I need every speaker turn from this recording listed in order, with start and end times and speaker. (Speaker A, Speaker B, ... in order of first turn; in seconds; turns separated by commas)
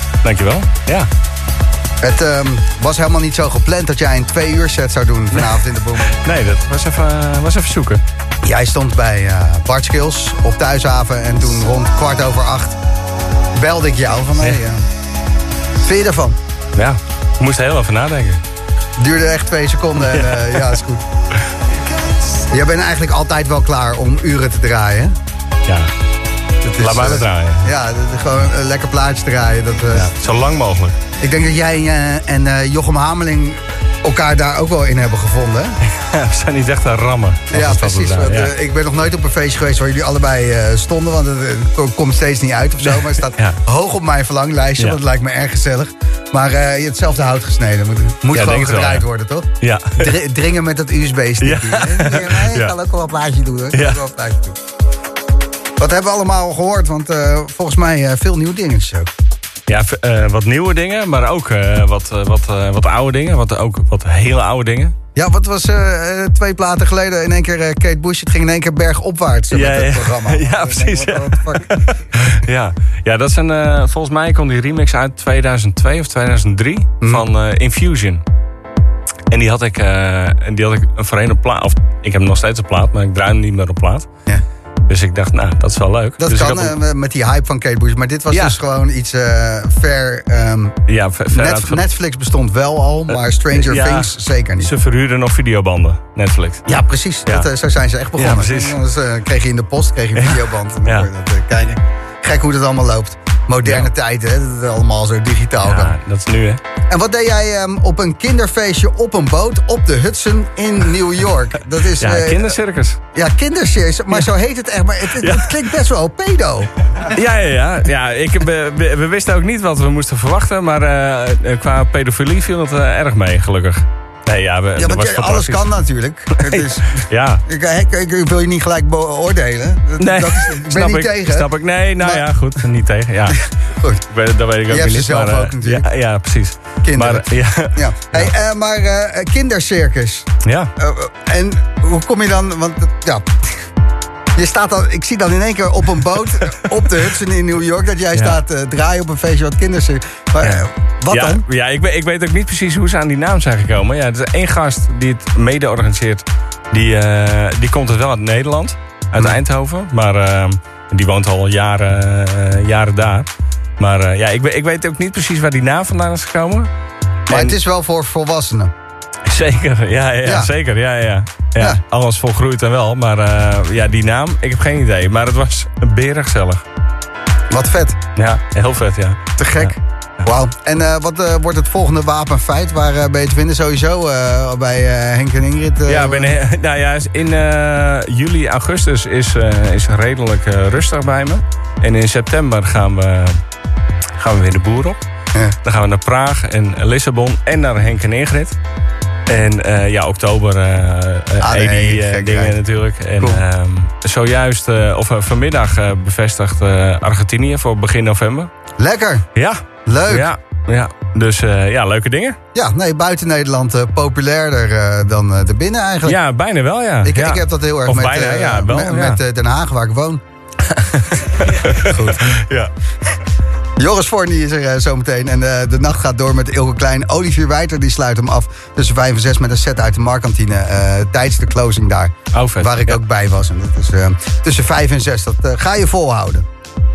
Speaker A: 0.2-1.1, Speaker B: 2.0-6.1, Speaker A: 5.3-8.0, Speaker B: 8.4-12.8, Speaker B: 13.6-14.8, Speaker B: 15.8-16.4, Speaker A: 16.8-18.4, Speaker B: 19.0-21.0, Speaker B: 22.5-25.1, Speaker A: 26.6-27.6, Speaker B: 26.8-30.1, Speaker A: 29.9-30.9, Speaker B: 31.2-35.8, Speaker A: 35.8-38.5, Speaker B: 37.5-54.5, Speaker A: 42.8-43.6, Speaker A: 48.3-49.1, Speaker A: 49.6-50.1, Speaker A: 51.4-52.7, Speaker A: 53.7-54.0, Speaker B: 55.8-59.1, Speaker A: 59.7-64.9, Speaker B: 65.2-71.8, Speaker A: 69.5-78.2, Speaker A: 79.3-84.1, Speaker A: 84.9-86.8, Speaker B: 86.2-90.8, Speaker A: 88.3-88.6, Speaker A: 90.9-91.8, Speaker B: 91.3-94.7, Speaker A: 93.1-96.7, Speaker B: 96.7-105.9, Speaker A: 98.2-98.8, Speaker A: 100.2-101.1, Speaker A: 103.6-103.9, Speaker A: 105.6-106.6, Speaker B: 106.9-112.5, Speaker A: 112.0-113.0, Speaker B: 113.1-116.7, Speaker A: 115.2-115.7, Speaker A: 117.0-125.7, Speaker B: 124.8-131.5, Speaker A: 126.3-127.4, Speaker A: 130.0-133.4, Speaker B: 133.8-134.0, Speaker A: 134.1-138.3, Speaker B: 134.7-135.9, Speaker B: 136.8-143.3, Speaker A: 140.4-140.7, Speaker B: 144.3-151.4, Speaker A: 150.4-163.3, Speaker A: 163.8-166.7, Speaker B: 167.3-168.7, Speaker A: 167.3-167.6, Speaker A: 169.2-176.6, Speaker B: 170.2-170.5, Speaker B: 177.5-178.0, Speaker A: 178.2-179.7, Speaker B: 179.4-186.3, Speaker A: 185.9-193.4, Speaker A: 194.2-195.0, Speaker A: 195.6-198.6, Speaker A: 199.3-208.5, Speaker B: 201.4-202.6, Speaker B: 208.8-209.3, Speaker A: 209.3-212.4, Speaker B: 209.8-210.3, Speaker B: 212.5-216.2, Speaker A: 216.0-219.2, Speaker B: 217.0-220.2, Speaker B: 220.8-222.4, Speaker A: 221.1-222.7, Speaker B: 223.8-236.4, Speaker A: 232.3-233.0